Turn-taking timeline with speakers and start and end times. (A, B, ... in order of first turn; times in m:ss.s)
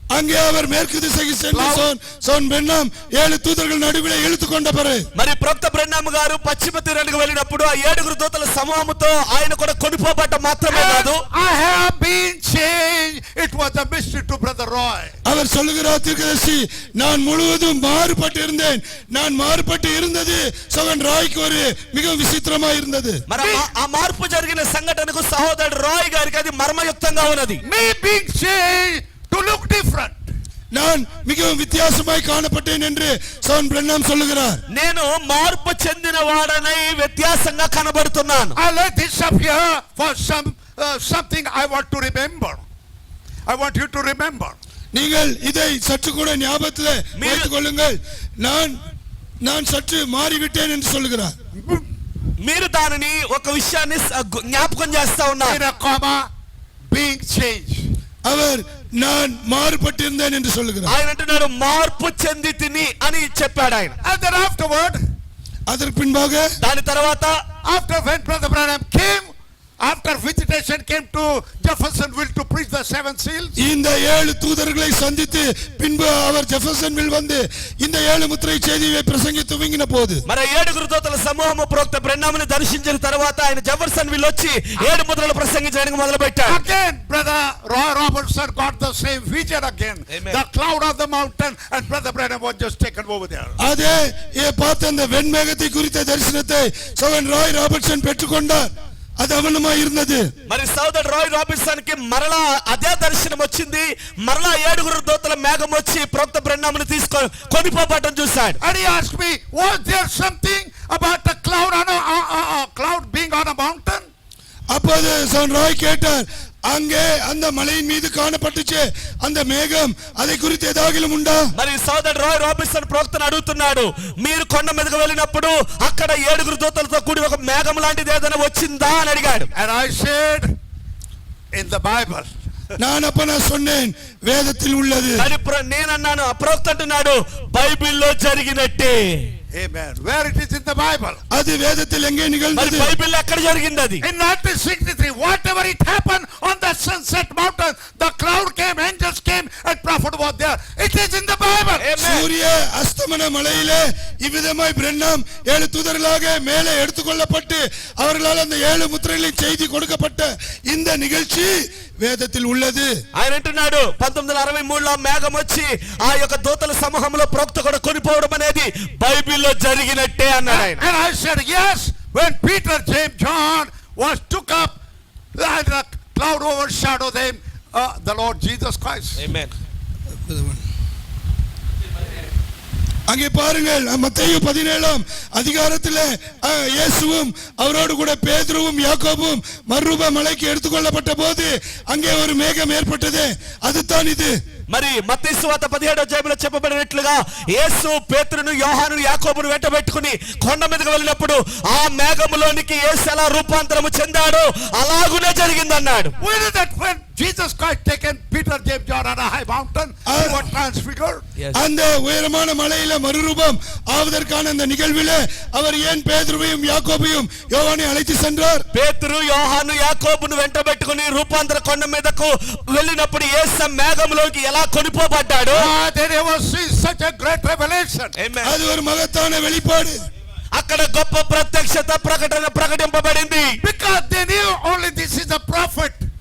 0:00.1-0:05.0 A
0:01.5-0:01.9 B
0:05.1-0:11.2 C
0:10.7-0:15.1 B
0:15.2-0:23.2 A
0:23.3-0:27.6 C
0:23.4-0:23.6 B
0:27.6-0:30.2 B
0:30.7-0:34.6 A
0:34.7-0:38.6 C
0:38.6-0:42.6 B
0:43.5-0:44.6 B
0:44.9-0:48.8 A
0:47.2-0:47.5 C
0:49.4-0:51.3 A
0:51.5-0:51.8 B
0:52.4-0:55.6 C
0:55.4-0:56.2 B
0:56.9-0:57.8 B
0:58.3-1:00.9 A
1:00.8-1:03.9 C
1:04.0-1:05.0 B
1:05.7-1:06.5 A
1:06.6-1:07.4 C
1:07.6-1:13.6 B
1:13.6-1:20.2 A
1:20.3-1:26.6 C
1:26.5-1:33.6 B
1:30.1-1:30.4 C
1:33.6-1:40.3 A
1:40.5-1:48.6 C
1:48.6-1:54.1 B
1:54.7-2:01.4 A
2:01.5-2:09.5 C
2:09.5-2:10.5 B
2:11.5-2:12.3 B
2:12.8-2:15.2 A
2:15.2-2:19.3 C
2:19.5-2:21.2 B
2:21.3-2:22.9 A
2:22.5-2:24.0 C
2:24.0-2:31.9 B
2:31.8-2:32.3 C
2:32.0-2:42.9 A
2:43.1-2:50.8 C
2:50.5-2:54.7 B
2:55.3-2:59.2 B
2:59.2-2:59.5 C
3:00.3-3:00.6 A
3:03.1-3:14.3 A
3:14.7-3:26.1 C
3:26.2-3:31.2 B
3:30.0-3:30.4 A
3:31.5-3:38.6 A
3:38.7-3:45.7 C
3:45.5-3:48.1 B
3:48.2-3:48.6 C
3:48.4-3:50.0 A
3:50.5-3:53.6 C
3:53.6-3:56.0 B